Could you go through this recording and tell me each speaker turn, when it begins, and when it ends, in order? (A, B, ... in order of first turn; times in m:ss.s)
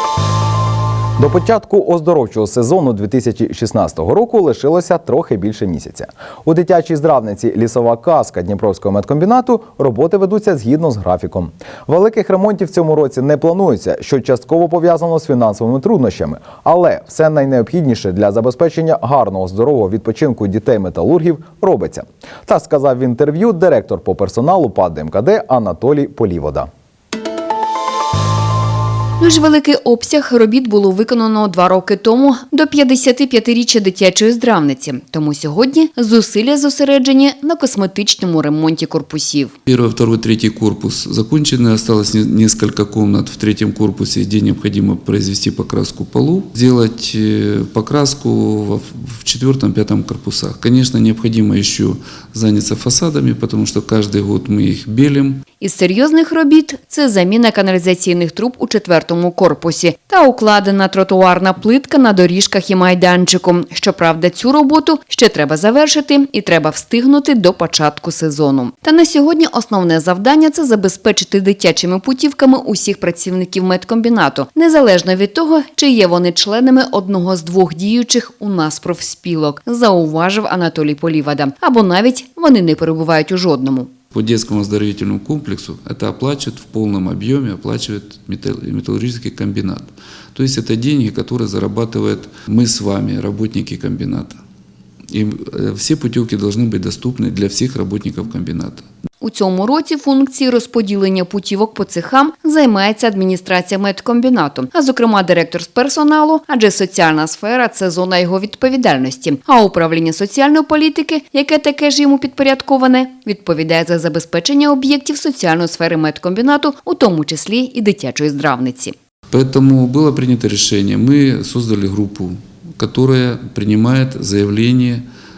0:01.2-0:26.7 A
0:29.2-0:39.5 B
0:39.7-0:55.4 C
0:55.6-1:23.9 B
1:24.1-1:34.4 C
1:35.1-1:38.8 C
1:39.2-1:58.9 B
1:59.3-2:05.1 C